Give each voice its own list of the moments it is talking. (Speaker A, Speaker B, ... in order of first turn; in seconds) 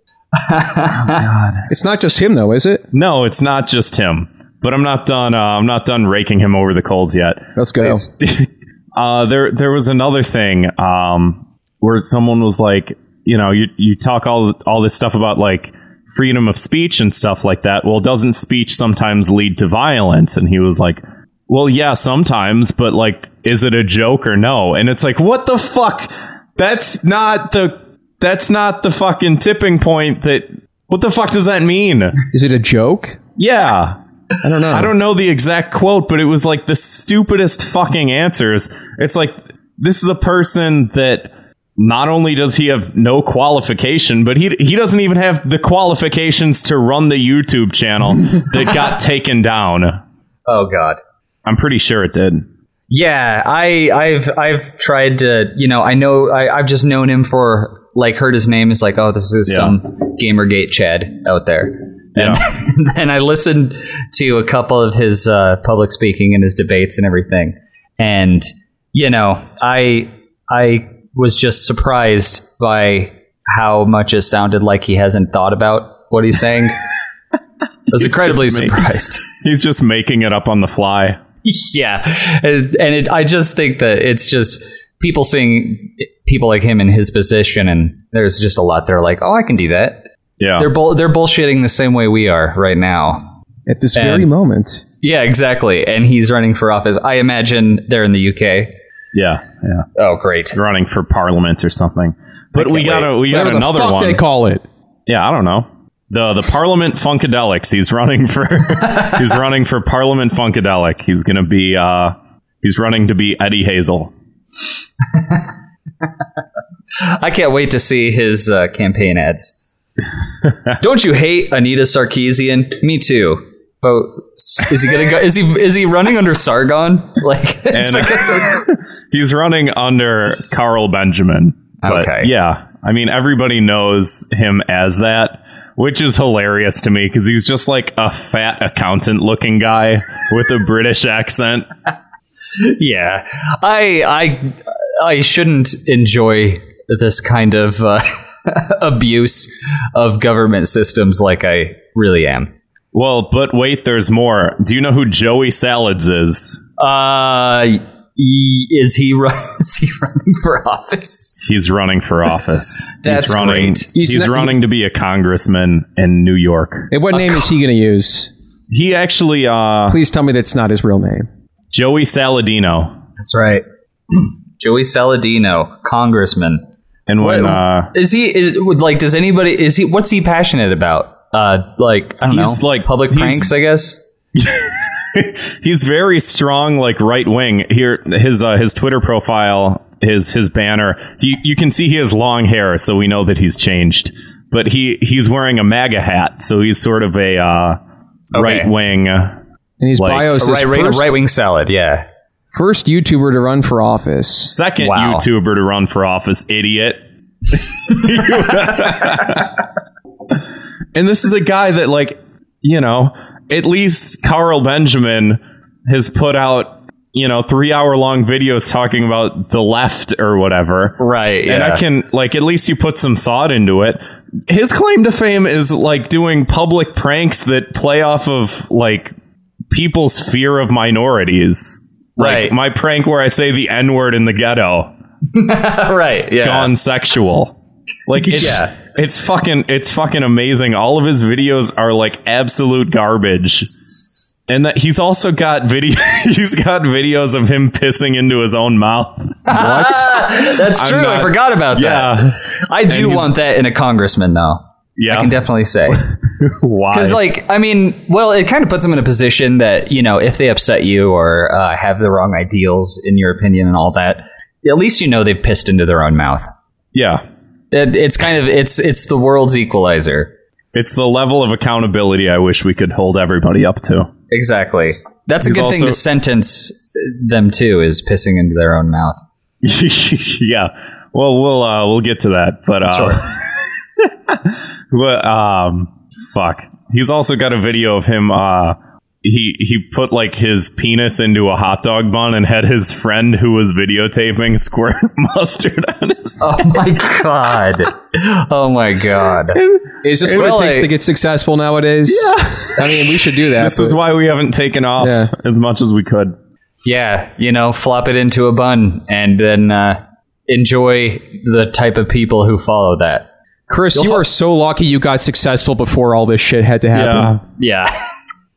Speaker A: 0.3-1.2, 50.5-51.0, 52.9-76.8, 77.9-79.3, 81.4-90.0, 90.6-93.3, 94.0-94.3, 95.0-98.7, 100.0-100.6, 102.5-103.1, 115.1-115.4, 117.0-119.6, 120.8-128.8, 131.8-132.3, 142.6-152.5, 156.8-161.4, 163.0-163.9, 167.1-167.5, 173.2-176.6, 177.2-184.0, 198.3-198.7, 200.4-202.1, 204.8-205.2, 221.0-221.8, 232.2-232.6, 235.3-236.7, 238.2-238.7, 249.5-256.1, 256.9-266.5, 267.7-270.3, 274.3-279.2, 282.9-283.2, 296.4-299.6, 300.3-300.9, 306.9-313.3, 313.9-314.2, 317.6-317.9
Speaker B: 1.1-1.7, 2.9-32.2, 33.4-34.0, 34.7-50.0, 51.5-52.5, 59.5-59.7, 62.2-62.4, 77.9-78.8, 79.3-81.2, 90.4-90.7, 99.1-99.9, 100.5-104.2, 105.1-114.1, 127.7-141.7, 152.9-156.6, 161.4-166.9, 168.7-170.0, 171.7-172.9, 177.1-177.9, 182.3-183.5, 184.4-197.8, 198.3-199.4, 200.0-200.3, 204.4-207.0, 207.8-209.5, 210.9-229.1, 229.7-234.9, 236.4-237.6, 238.1-243.7, 244.5-253.3, 255.0-255.4, 255.9-257.2, 266.9-267.2, 270.7-274.1, 275.4-276.0, 279.6-283.2, 284.0-296.6, 300.2-300.5, 302.1-303.1, 303.6-306.4, 316.9-317.4
Speaker C: 1.7-2.9, 7.6-8.1, 32.3-33.2, 34.4-34.9, 93.7-94.8, 103.2-104.7, 163.9-164.6, 166.9-168.3, 169.9-171.3, 199.8-201.2, 202.5-204.5, 300.0-304.0, 305.0-305.3, 313.7-317.4